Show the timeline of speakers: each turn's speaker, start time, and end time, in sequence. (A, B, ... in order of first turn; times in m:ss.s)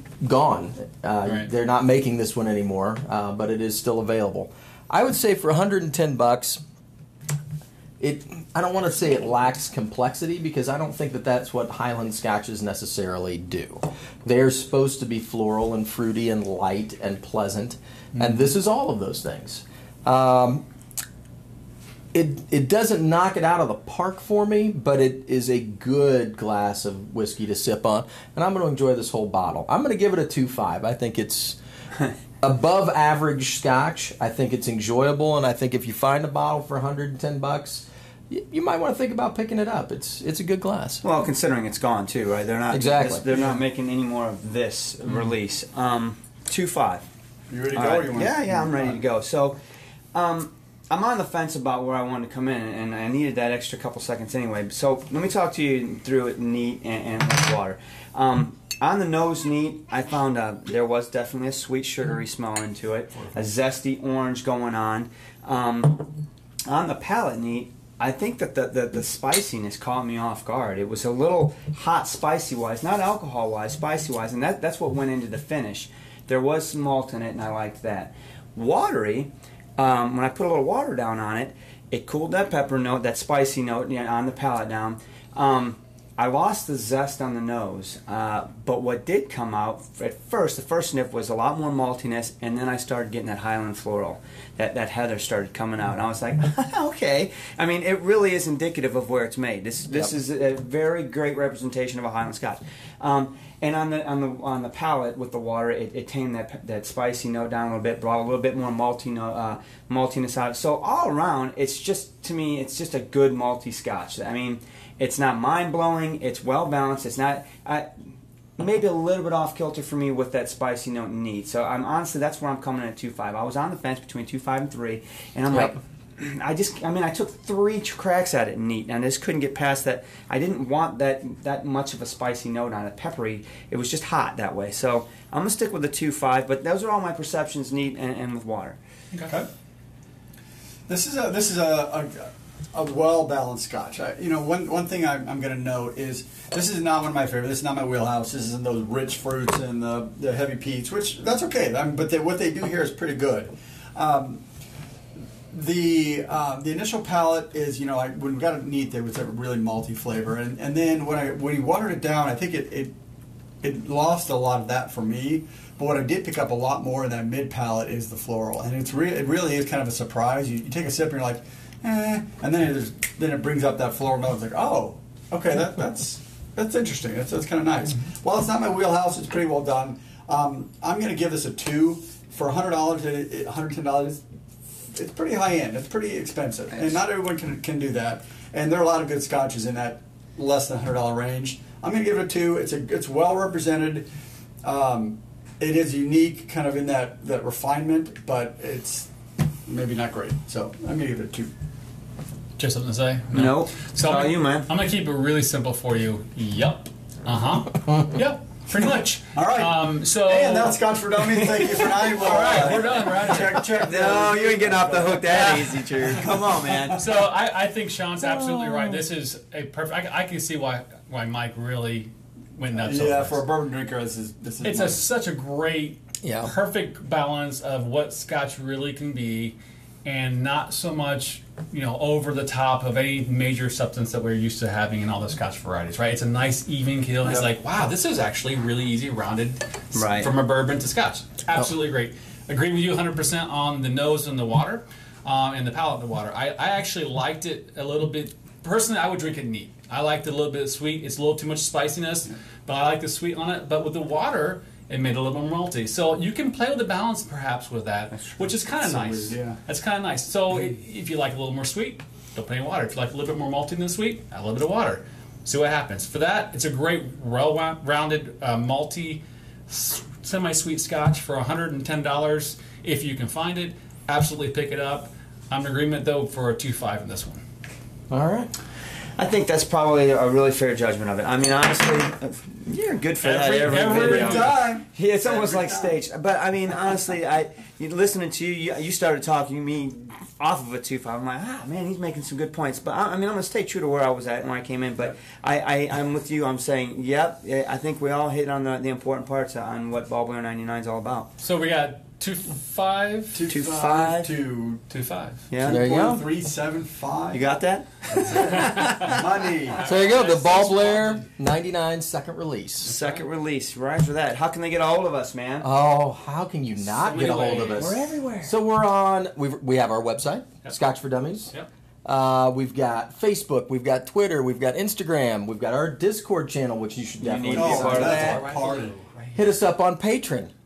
0:00.2-0:06.6 A
0:08.0-0:20.6 A
0:18.1-0:18.6 B
0:22.1-0:31.6 A
0:32.4-0:41.0 A
0:41.0-0:47.0 C
0:42.7-0:43.3 A
0:43.3-0:43.6 B
0:47.5-0:49.0 B
0:47.7-0:49.6 C
0:50.1-1:06.1 C
1:06.6-1:57.9 C
1:58.6-2:18.8 C
2:20.9-2:34.4 B
2:35.5-2:42.9 B
2:43.6-3:04.2 B
3:04.9-3:14.1 B
3:14.6-3:19.1 B
3:19.7-3:21.5 B
3:22.6-3:30.8 D
3:23.3-3:24.7 C
3:28.7-3:36.9 B
3:31.3-3:37.1 C
3:31.8-3:33.7 D
3:35.3-3:36.2 D
3:36.9-3:43.5 D
3:38.2-3:39.1 A
3:42.8-3:45.0 B
3:44.6-4:37.4 D
3:46.2-3:46.6 A
3:59.9-4:00.3 C
4:18.1-4:18.5 C
4:18.8-4:19.6 B
4:38.1-4:38.5 A
4:39.2-5:01.3 C
4:43.2-4:44.6 D
4:43.6-4:46.0 B
5:01.4-5:03.5 D
5:03.3-5:04.9 B
5:03.5-5:04.4 C
5:04.9-5:05.4 D
5:05.5-5:05.8 C
5:05.6-5:07.5 B
5:05.6-5:06.3 A
5:07.3-5:09.2 C
5:08.1-5:09.8 B
5:09.7-5:11.2 D
5:09.8-5:13.0 A
5:12.8-5:15.7 C
5:15.6-5:21.5 A
5:16.9-5:17.9 D
5:17.5-5:18.5 C
5:22.0-5:28.4 A
5:27.2-5:28.6 C
5:27.5-5:28.9 B
5:27.5-5:29.3 D
5:29.3-5:30.5 A